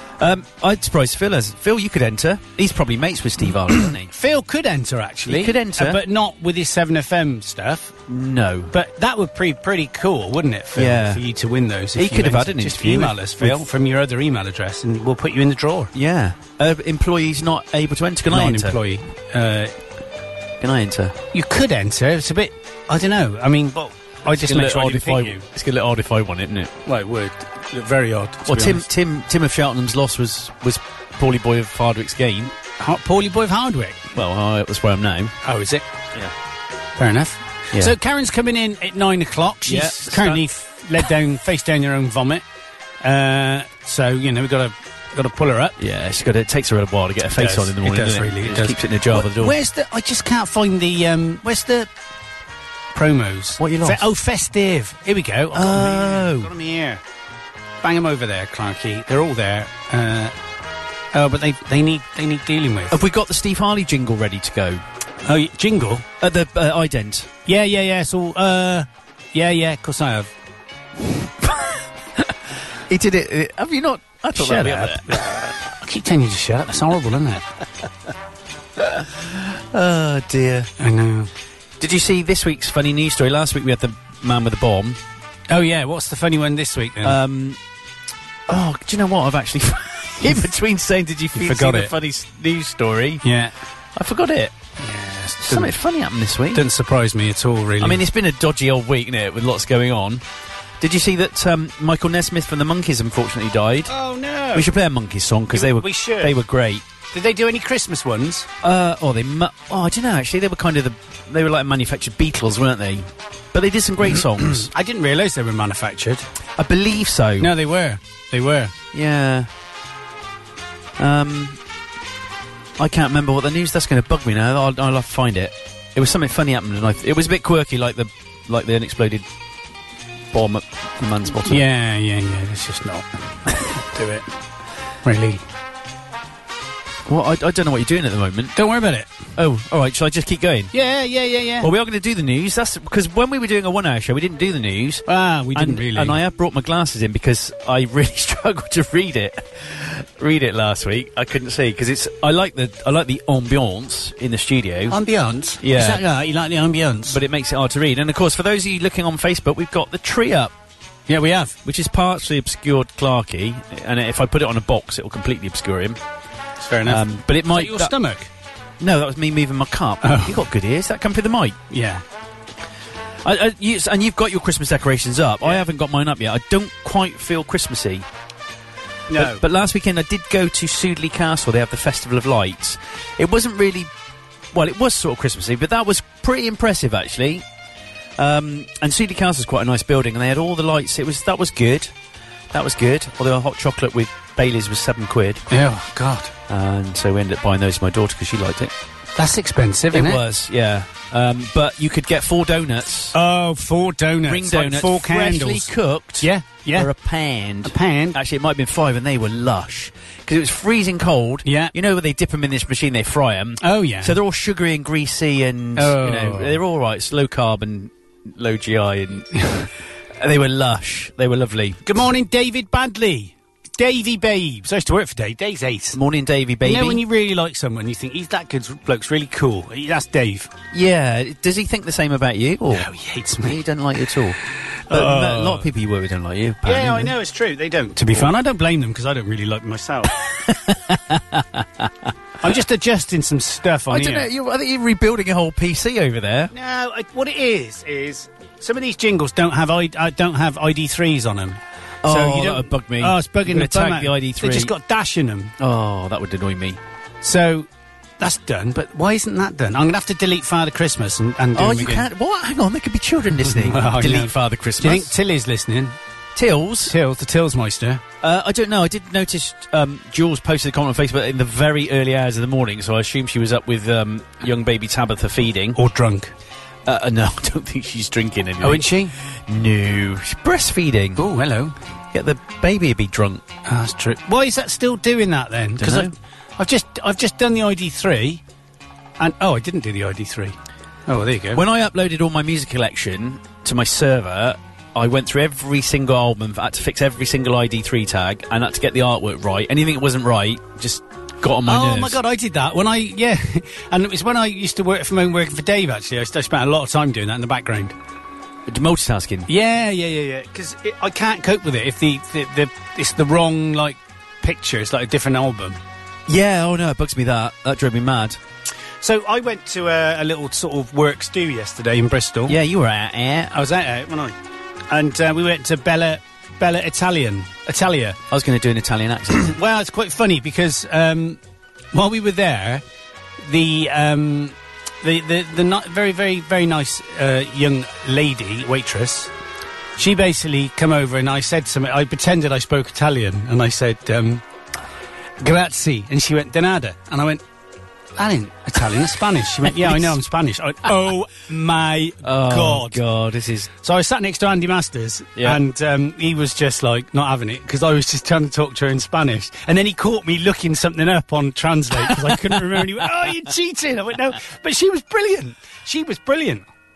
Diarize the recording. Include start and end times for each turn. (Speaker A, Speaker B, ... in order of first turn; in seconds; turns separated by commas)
Speaker A: 0.2-4.1, Speaker B: 4.1-8.0, Speaker A: 5.3-6.0, Speaker A: 8.1-8.7, Speaker B: 8.7-15.9, Speaker A: 10.8-11.2, Speaker A: 11.9-13.7, Speaker A: 15.9-18.8, Speaker B: 18.3-19.8, Speaker A: 20.6-21.2, Speaker B: 21.3-25.4, Speaker A: 24.3-26.7, Speaker B: 26.9-28.9, Speaker A: 28.4-32.5, Speaker B: 32.8-34.2, Speaker A: 34.1-35.4, Speaker B: 35.4-35.9, Speaker B: 37.0-42.5, Speaker A: 39.7-40.4, Speaker B: 43.0-45.8, Speaker A: 45.8-49.6, Speaker B: 47.3-51.9, Speaker B: 52.9-57.0, Speaker A: 53.6-54.0, Speaker A: 55.5-56.5, Speaker B: 57.8-60.4, Speaker B: 61.1-63.0, Speaker A: 62.9-64.8, Speaker B: 65.2-66.1, Speaker A: 66.2-67.3, Speaker B: 67.5-70.3, Speaker A: 72.9-75.2, Speaker B: 74.3-77.5, Speaker A: 79.0-80.7, Speaker B: 80.8-81.3, Speaker A: 81.8-85.0, Speaker B: 85.5-87.2, Speaker A: 87.0-87.6, Speaker A: 88.5-93.2, Speaker B: 91.3-91.9, Speaker B: 93.2-93.5, Speaker A: 94.0-94.5, Speaker B: 94.8-95.8, Speaker A: 95.4-96.7, Speaker B: 96.5-98.0, Speaker A: 97.8-100.2, Speaker A: 100.8-103.9, Speaker B: 103.9-104.7, Speaker A: 104.5-106.8, Speaker B: 105.5-106.4, Speaker B: 107.1-108.5, Speaker A: 108.6-114.7, Speaker B: 114.4-116.3, Speaker A: 116.6-117.5, Speaker B: 117.4-118.7, Speaker A: 118.9-119.5, Speaker A: 121.0-121.6, Speaker A: 122.8-129.3, Speaker A: 130.3-131.6, Speaker B: 131.5-134.3, Speaker B: 135.0-135.4, Speaker A: 137.1-138.6, Speaker B: 138.6-139.1, Speaker A: 139.4-140.7, Speaker B: 140.7-141.7, Speaker A: 141.6-155.0, Speaker B: 145.1-146.2, Speaker B: 154.9-157.2, Speaker A: 155.6-156.0, Speaker A: 157.1-160.5, Speaker B: 161.1-161.6, Speaker A: 161.7-166.0, Speaker B: 166.6-168.3, Speaker A: 166.9-167.9, Speaker A: 168.8-171.6, Speaker B: 170.0-170.4, Speaker B: 171.7-172.0, Speaker A: 173.2-178.1, Speaker B: 179.1-179.4, Speaker A: 179.2-183.9, Speaker A: 184.5-187.4, Speaker A: 188.2-191.9, Speaker A: 192.5-195.5, Speaker B: 195.5-196.3, Speaker A: 196.5-198.7, Speaker B: 199.2-200.2, Speaker A: 199.9-203.2, Speaker B: 203.1-206.9, Speaker A: 204.2-219.4, Speaker B: 207.6-208.2, Speaker B: 211.4-211.7, Speaker B: 213.6-214.2, Speaker B: 215.8-216.6, Speaker A: 220.2-221.8, Speaker B: 221.8-226.0, Speaker A: 225.9-227.0, Speaker B: 226.6-230.5, Speaker A: 230.7-232.9, Speaker B: 232.7-233.6, Speaker A: 233.4-234.4, Speaker B: 234.9-235.7, Speaker A: 234.9-237.1, Speaker B: 236.6-240.1, Speaker A: 240.3-242.1, Speaker B: 242.4-244.3, Speaker A: 243.9-246.5, Speaker B: 246.5-255.6, Speaker A: 252.0-254.7, Speaker A: 255.6-256.8, Speaker B: 257.2-257.7, Speaker B: 258.2-262.1, Speaker A: 261.6-265.1, Speaker B: 263.4-266.0, Speaker A: 266.4-266.9, Speaker B: 266.9-268.0, Speaker A: 268.2-275.8, Speaker B: 275.8-276.3, Speaker A: 276.9-281.2, Speaker B: 278.6-279.1, Speaker B: 281.2-281.8, Speaker A: 282.1-283.4, Speaker B: 283.7-288.4, Speaker A: 285.8-286.1, Speaker B: 289.2-290.6, Speaker B: 291.1-291.6, Speaker A: 291.5-302.2, Speaker B: 301.7-307.9, Speaker A: 308.7-309.5, Speaker B: 309.5-315.8, Speaker A: 316.3-318.4, Speaker B: 319.0-322.6, Speaker A: 322.5-323.6, Speaker B: 323.5-324.4, Speaker B: 324.9-328.2, Speaker A: 328.3-329.6, Speaker B: 329.4-331.4, Speaker B: 331.9-332.8, Speaker B: 333.4-339.3, Speaker B: 340.0-344.4, Speaker B: 345.4-347.4, Speaker B: 348.2-353.0, Speaker A: 349.8-350.2, Speaker A: 352.2-353.7, Speaker B: 353.8-366.6